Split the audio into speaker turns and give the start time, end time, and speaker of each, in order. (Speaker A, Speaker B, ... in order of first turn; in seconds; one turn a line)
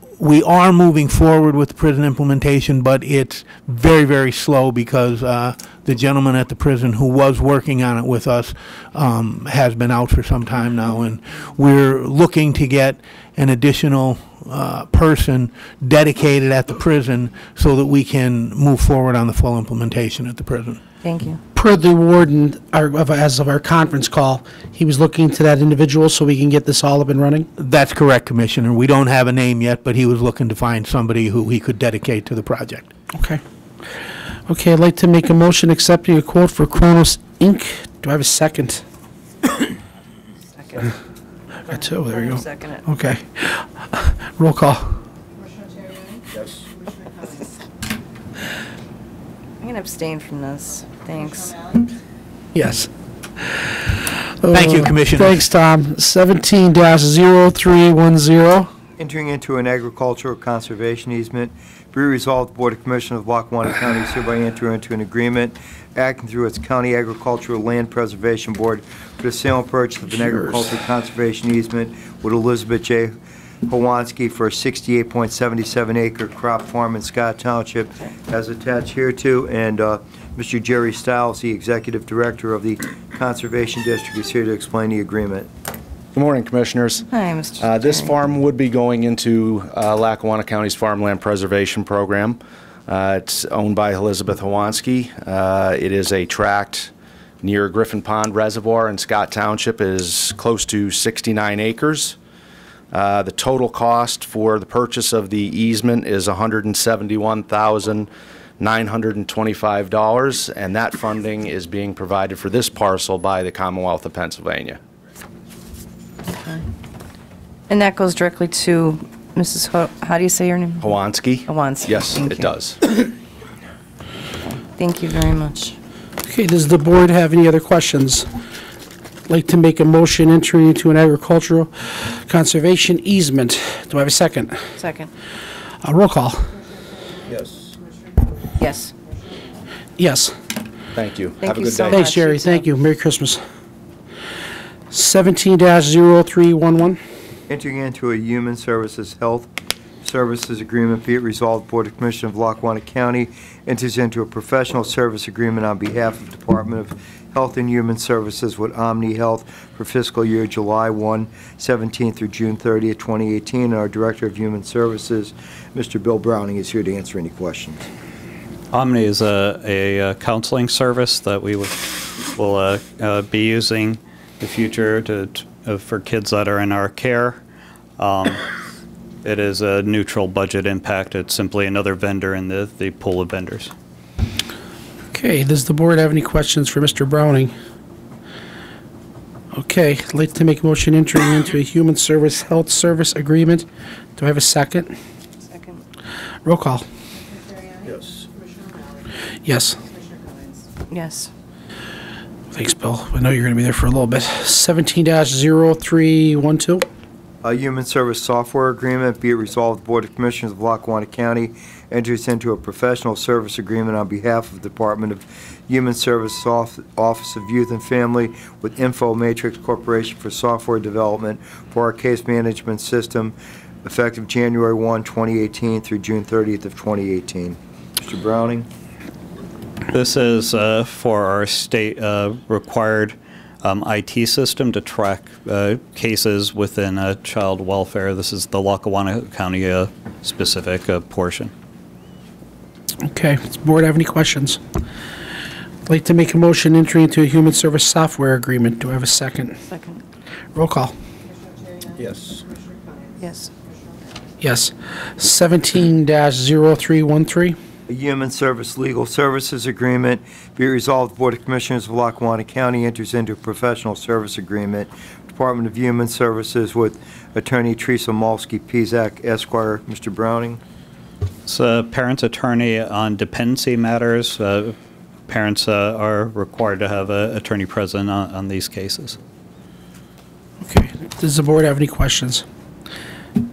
Speaker A: 0.2-20.8
Speaker B: 21.0-21.4
Speaker C: 21.6-27.5
Speaker A: 27.6-32.9
Speaker C: 33.1-33.4
Speaker C: 34.5-38.8
Speaker B: 40.5-40.9
Speaker B: 41.7-42.9
Speaker C: 41.7-45.0
Speaker B: 49.6-51.8
Speaker C: 52.5-52.9
Speaker C: 54.2-58.7
Speaker A: 54.5-55.4
Speaker D: 59.0-85.5
Speaker E: 86.2-87.1
Speaker B: 87.1-88.1
Speaker E: 87.6-102.2
Speaker E: 102.9-114.8
Speaker B: 116.3-116.6
Speaker B: 117.7-122.5
Speaker E: 120.8-122.8
Speaker B: 124.4-125.8
Speaker C: 126.3-128.3
Speaker C: 129.3-134.7
Speaker B: 134.8-135.1
Speaker C: 135.8-136.5
Speaker B: 138.6-138.9
Speaker C: 140.0-140.3
Speaker E: 140.9-142.2
Speaker B: 141.4-142.7
Speaker C: 141.8-143.4
Speaker C: 144.9-147.0
Speaker D: 147.5-149.5
Speaker D: 150.0-167.9
Speaker F: 168.7-177.4
Speaker F: 178.0-178.4
Speaker F: 179.2-183.7
Speaker C: 185.1-187.5
Speaker C: 189.5-193.7
Speaker C: 194.2-194.9
Speaker B: 195.5-195.8
Speaker C: 196.4-196.8
Speaker C: 199.4-199.8
Speaker B: 200.9-201.3
Speaker C: 202.5-206.8
Speaker D: 207.4-228.7
Speaker F: 229.9-241.5
Speaker C: 243.1-244.6
Speaker C: 245.9-249.6
Speaker B: 249.7-250.0
Speaker C: 250.6-250.9
Speaker B: 253.2-253.5
Speaker C: 254.4-257.6
Speaker D: 257.9-270.6
Speaker F: 271.5-274.8
Speaker F: 275.3-279.2
Speaker C: 280.6-282.4